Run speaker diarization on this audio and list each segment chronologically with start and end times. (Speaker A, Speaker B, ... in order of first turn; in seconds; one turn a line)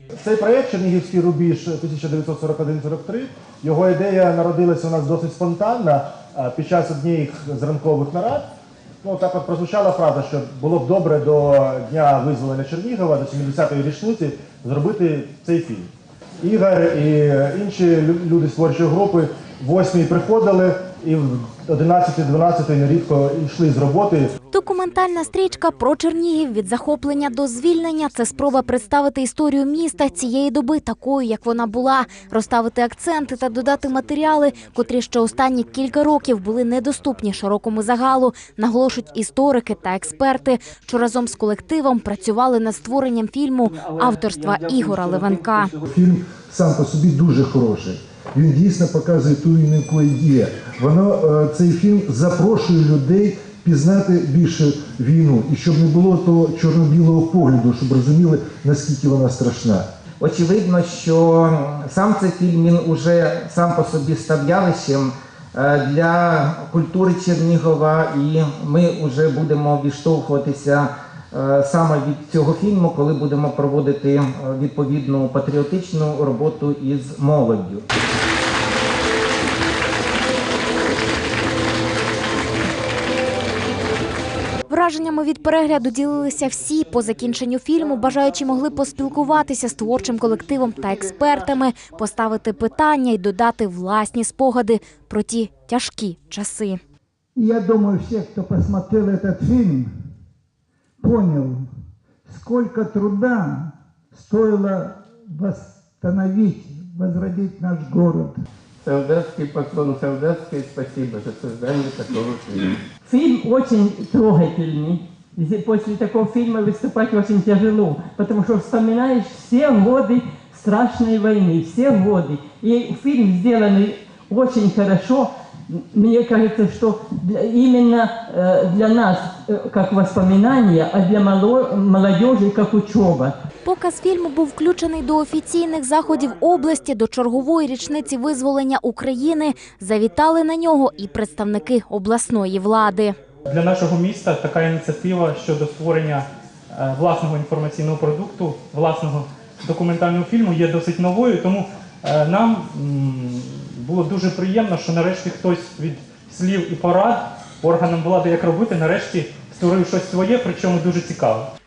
Speaker A: 0.2-8.5
Speaker A: 9.0-15.9
Speaker A: 16.4-24.3
Speaker B: 24.5-45.7
Speaker C: 45.9-59.8
Speaker D: 60.2-77.8
Speaker B: 84.7-96.8
Speaker E: 97.3-99.9
Speaker E: 101.0-101.7
Speaker E: 102.3-108.4
Speaker F: 108.8-112.8
Speaker G: 113.0-125.3
Speaker G: 125.9-133.3
Speaker B: 133.6-143.1
Speaker H: 143.5-161.5